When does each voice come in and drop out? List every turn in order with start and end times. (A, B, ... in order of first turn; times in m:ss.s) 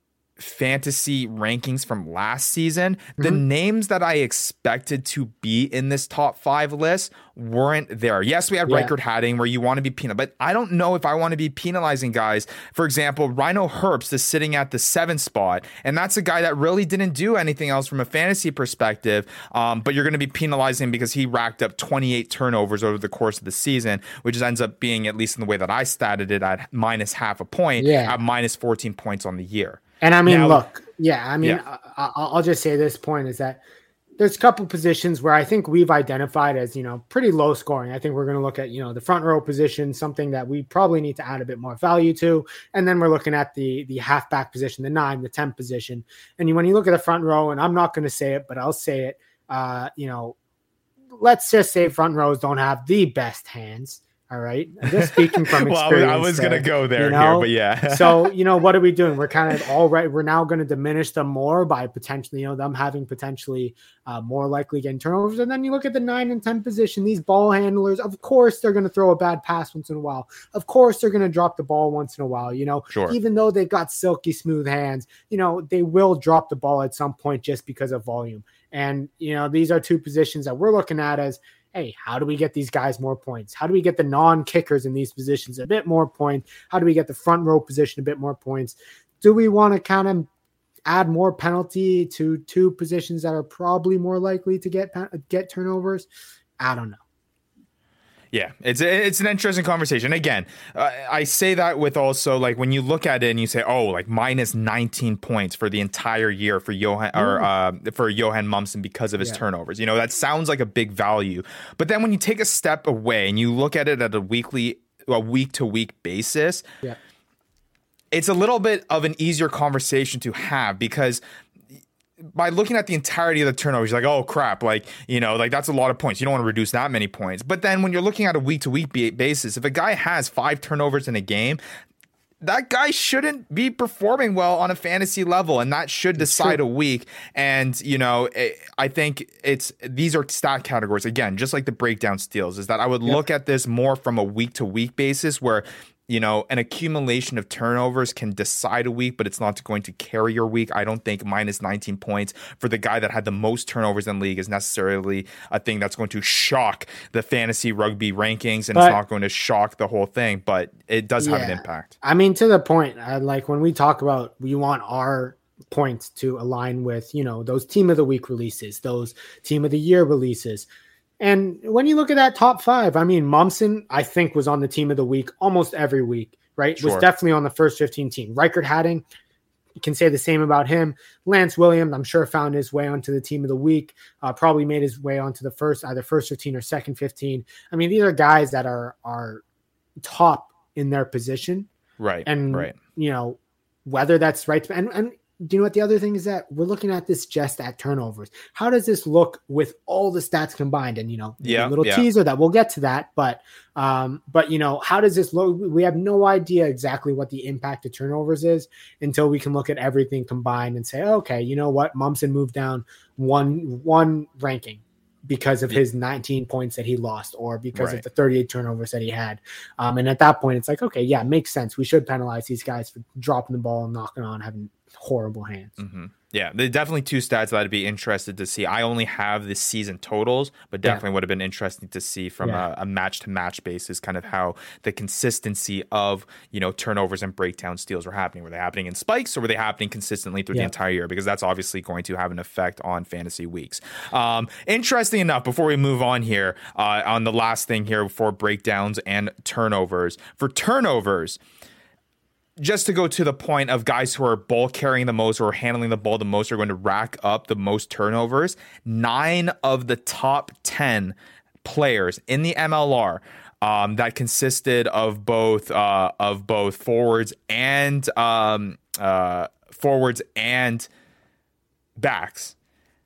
0:00.4-0:30.6 A
0:08.6-0:08.9 B
0:27.8-0:28.2 B
0:30.0-0:33.6 B
0:34.2-0:50.4 B
0:51.1-1:30.3 B
0:54.9-0:58.3 A
1:12.9-1:13.2 A
1:30.8-1:36.1 B
1:36.6-1:37.0 B
1:38.3-1:56.6 A
1:47.1-1:47.5 B
1:58.1-2:01.2 A
2:02.3-2:11.6 A
2:12.4-2:41.9 A
2:16.2-2:16.6 B
2:38.7-2:39.0 B
2:41.2-2:50.7 B
2:51.2-2:59.0 B
2:56.8-2:57.0 A
2:59.8-3:09.4 B
3:10.0-3:11.7 B
3:12.0-3:12.8 A
3:12.2-3:45.8 B
3:21.4-3:22.1 A
3:37.7-3:38.0 A
3:45.8-4:11.4 A
4:12.6-4:30.9 A
4:32.0-4:32.5 A